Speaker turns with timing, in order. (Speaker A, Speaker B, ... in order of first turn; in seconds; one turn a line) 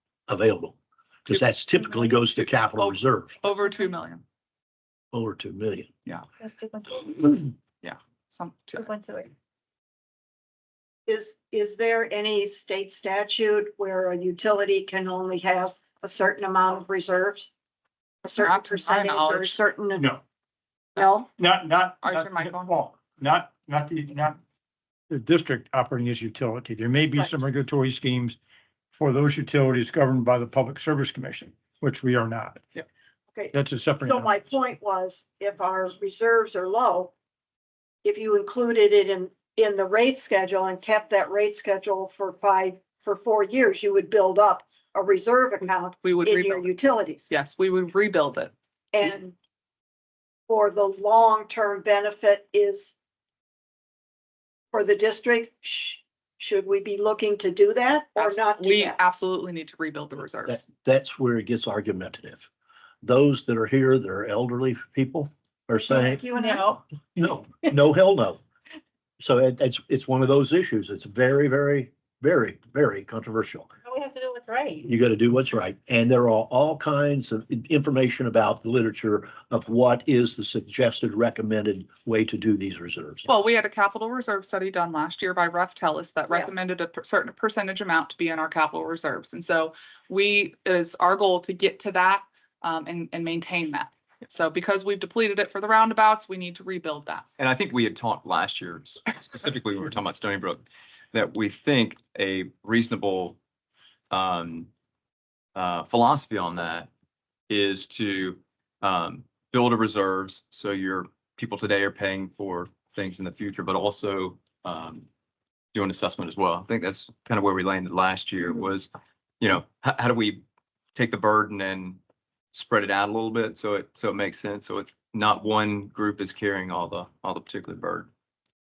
Speaker A: 0.3-3.4
Speaker B: 1.7-2.2
Speaker C: 2.8-4.2
Speaker B: 3.5-3.9
Speaker A: 5.1-5.9
Speaker B: 6.4-7.4
Speaker C: 7.8-8.9
Speaker B: 8.7-9.3
Speaker D: 11.1-17.5
Speaker D: 18.2-20.0
Speaker C: 18.3-19.6
Speaker E: 19.9-20.2
Speaker D: 21.0-21.3
Speaker E: 21.4-24.4
Speaker C: 22.0-22.7
Speaker E: 25.1-28.4
Speaker E: 28.9-32.8
Speaker D: 33.3-37.1
Speaker E: 33.5-34.4
Speaker D: 38.0-47.3
Speaker C: 46.0-46.7
Speaker C: 47.3-48.5
Speaker D: 48.9-49.3
Speaker D: 50.5-52.9
Speaker D: 54.7-59.0
Speaker C: 58.1-60.6
Speaker A: 60.5-62.5
Speaker A: 63.0-66.2
Speaker D: 65.8-66.8
Speaker B: 66.3-66.8
Speaker A: 67.1-68.4
Speaker A: 69.2-73.7
Speaker B: 73.8-75.0
Speaker A: 74.8-83.3
Speaker C: 83.2-97.2
Speaker D: 86.3-86.5
Speaker F: 97.4-103.4
Speaker F: 104.1-104.7
Speaker F: 105.5-106.9
Speaker F: 107.5-115.1
Speaker F: 115.7-120.4
Speaker F: 120.9-122.0
Speaker F: 122.5-128.1